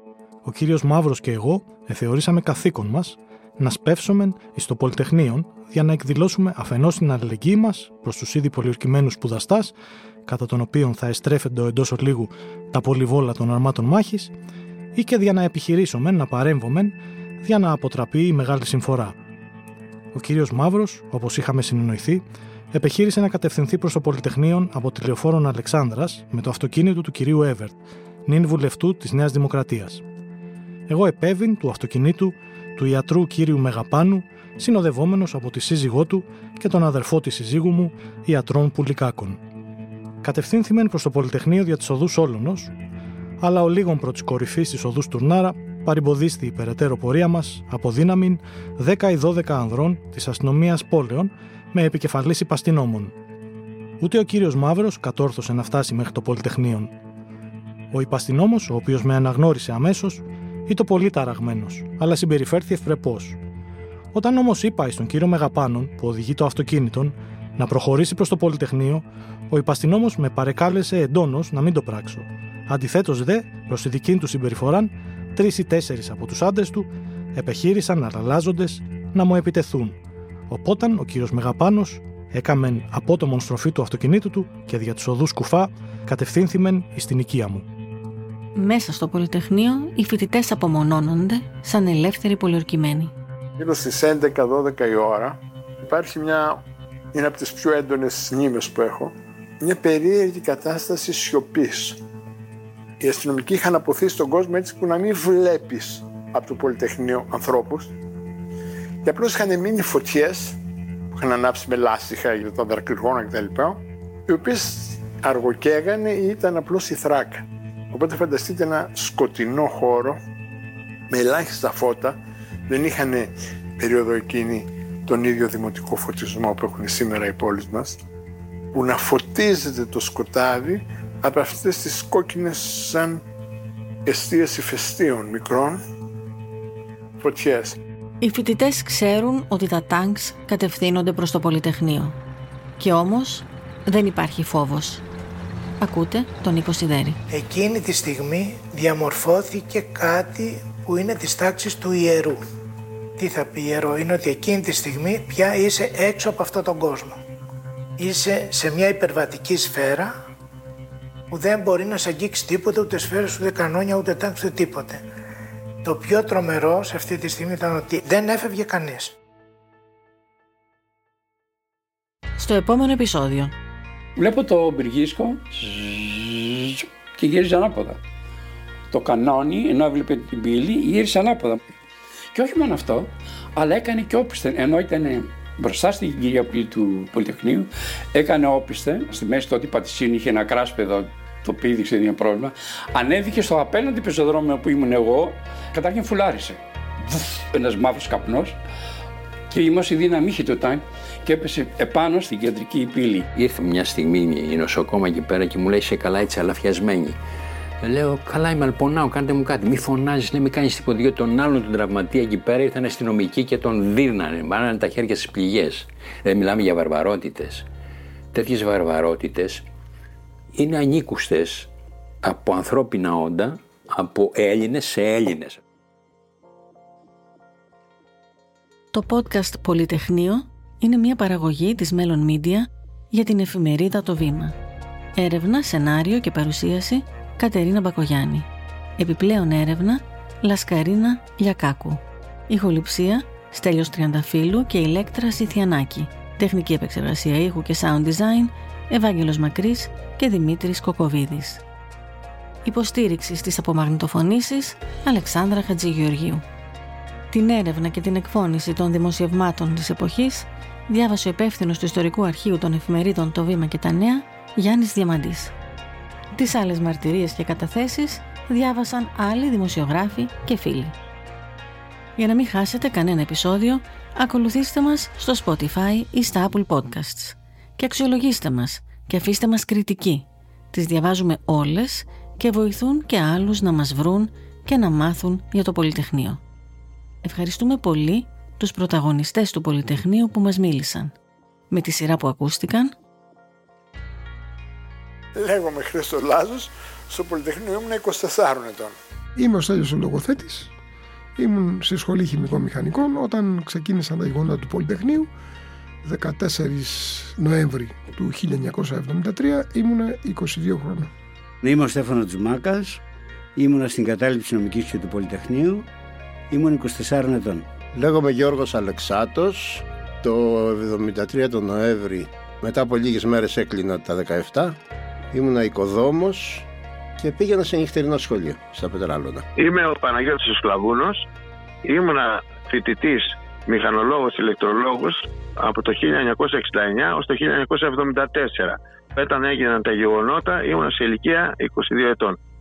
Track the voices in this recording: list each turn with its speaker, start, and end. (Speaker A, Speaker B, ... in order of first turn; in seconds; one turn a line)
Speaker A: 0.4-9.7
Speaker A: 10.2-14.3
Speaker A: 14.9-19.1
Speaker A: 20.1-30.0
Speaker A: 30.9-39.4
Speaker A: 40.2-42.7
Speaker A: 43.4-53.1
Speaker A: 54.0-56.9
Speaker A: 57.9-63.4
Speaker A: 64.1-80.0
Speaker A: 80.5-87.6
Speaker B: 88.5-93.1
Speaker C: 93.6-102.0
Speaker C: 103.0-107.9
Speaker C: 109.0-110.6
Speaker C: 111.1-120.2
Speaker C: 121.1-128.0
Speaker C: 128.7-133.2
Speaker C: 134.1-135.8
Speaker C: 137.2-137.8
Speaker B: 138.2-142.2
Speaker B: 142.8-145.0
Speaker B: 145.8-147.2
Speaker D: 147.3-152.4
Speaker D: 153.2-157.2
Speaker D: 158.0-160.1
Speaker D: 161.3-165.0
Speaker D: 165.8-169.1
Speaker B: 172.4-173.5
Speaker E: 174.2-178.0
Speaker E: 178.9-181.6
Speaker E: 182.3-198.6
Speaker E: 199.5-203.3
Speaker F: 203.3-207.2
Speaker F: 207.8-217.7
Speaker F: 218.3-219.7
Speaker F: 220.5-221.7
Speaker F: 222.2-225.6
Speaker B: 228.9-234.6
Speaker B: 235.2-251.6
Speaker B: 252.6-256.4
Speaker B: 257.3-265.5
Speaker B: 266.3-270.9
Speaker B: 272.2-286.4
Speaker B: 287.2-291.1
Speaker B: 291.7-292.9
Speaker C: 295.4-299.0
Speaker G: 299.4-300.7
Speaker G: 301.4-305.3
Speaker G: 306.0-311.1
Speaker H: 311.6-313.0
Speaker H: 313.5-315.9
Speaker H: 316.5-317.8
Speaker I: 317.9-324.8
Speaker I: 325.3-326.6
Speaker I: 327.2-329.4
Speaker J: 329.6-331.2
Speaker J: 331.8-342.4